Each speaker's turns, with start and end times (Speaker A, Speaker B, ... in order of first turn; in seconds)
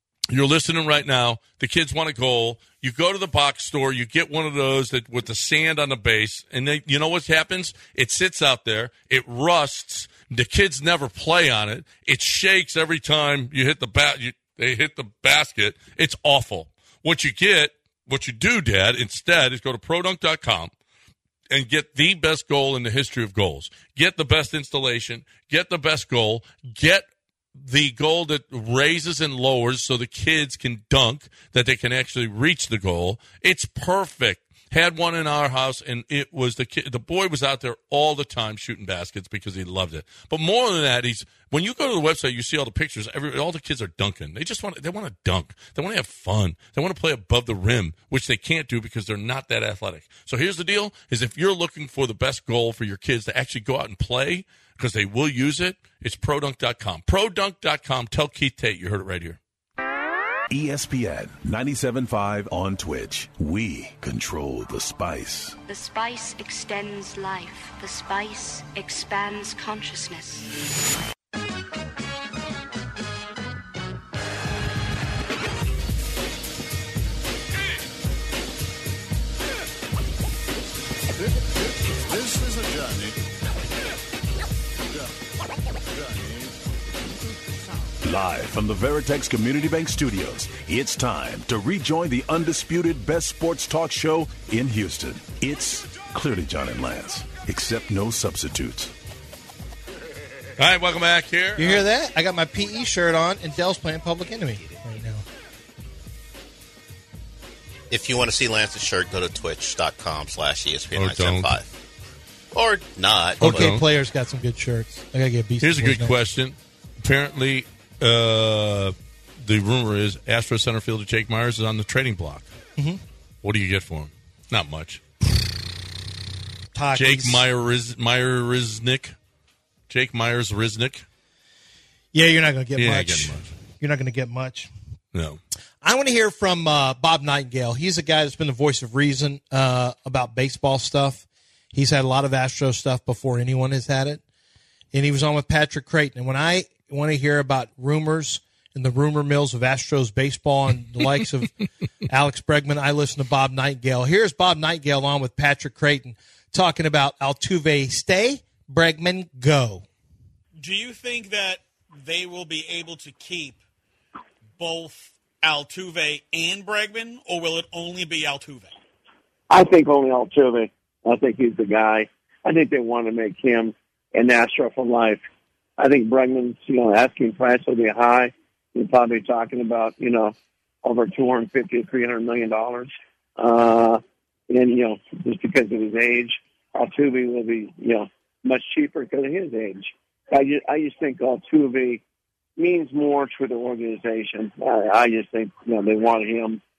Speaker A: 0.3-20.7, 21.5-59.4, 100.6-101.8, 110.9-111.5, 113.4-113.8, 115.6-122.5, 123.4-125.0, 126.9-129.1, 129.9-131.0, 132.8-133.5, 135.1-135.4
Speaker B: 60.5-65.6, 88.0-98.9
Speaker C: 65.7-70.5
Speaker D: 101.6-105.2, 113.4-116.2, 126.7-127.4, 132.1-134.7, 135.8-144.2, 144.9-151.5, 152.1-159.8
Speaker E: 107.9-111.7, 112.5-113.7
Speaker F: 160.6-163.5, 165.4-168.6
Speaker G: 169.5-175.2, 175.8-192.0, 192.6-196.6